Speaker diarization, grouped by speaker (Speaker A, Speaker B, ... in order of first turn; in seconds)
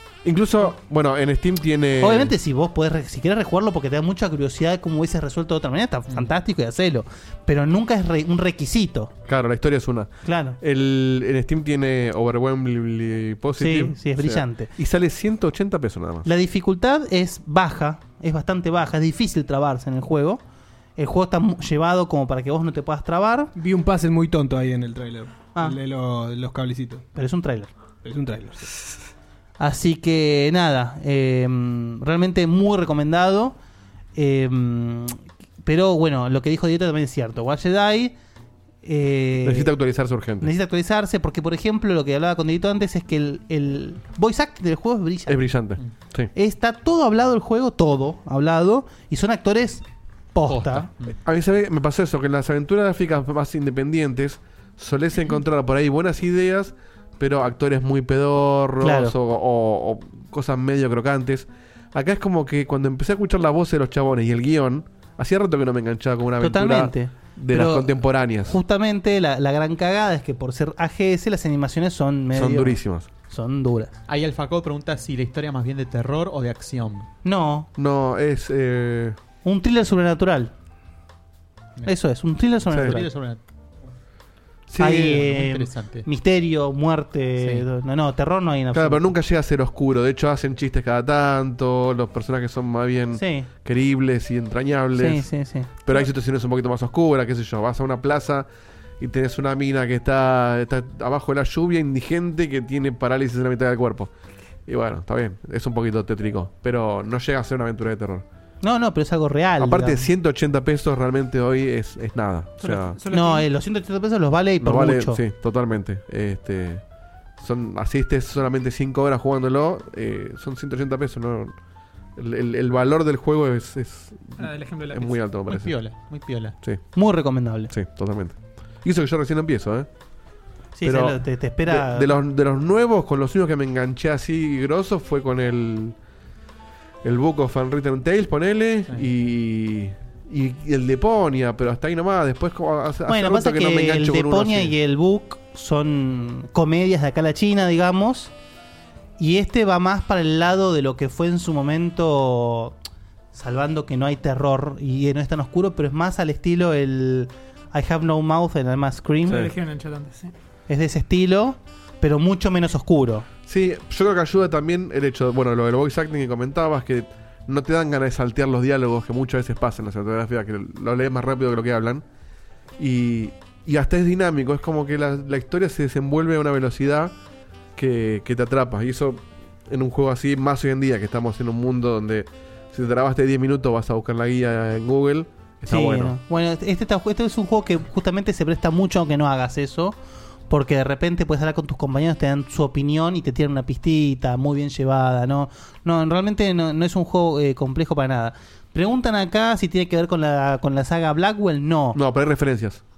Speaker A: 0.2-2.3, 9.3-10.1, 10.6-16.3, 39.4-40.5, 45.3-46.3, 51.2-68.6, 72.3-73.1, 77.8-79.2, 82.7-83.0, 84.7-85.2, 88.7-95.2, 95.8-98.5, 99.0-104.1, 104.7-108.2, 109.6-113.0, 114.6-116.8, 117.4-121.5, 122.2-125.7, 127.7-129.9, 130.8-135.9, 137.0-144.7, 159.2-159.5, 163.5-172.0, 172.8-177.1, 177.8-186.2, 201.9-202.8
Speaker B: 2.0-9.1, 10.2-10.6, 13.6-14.7, 16.2-20.4, 21.0-23.5, 27.1-27.7, 29.6-33.5, 34.1-38.1, 38.8-39.7, 40.4-45.4, 46.3-50.9, 58.8-59.1, 66.4-74.0, 77.2-77.7, 79.4-80.5, 81.9-83.1, 84.8-89.1, 93.1-93.5, 95.0-95.7, 108.6-110.0, 113.1-115.2, 126.9-127.7, 130.8-132.2, 143.1-148.3, 149.2-152.8, 153.3-159.5, 160.7-163.3, 185.7-190.0, 190.5-202.0
Speaker C: 23.5-27.1, 28.0-28.7
Speaker D: 50.5-51.1, 74.1-77.1, 82.7-83.4, 84.9-86.1, 87.4-87.7, 125.5-126.5
Speaker E: 112.6-113.4, 124.4-125.2, 159.3-160.3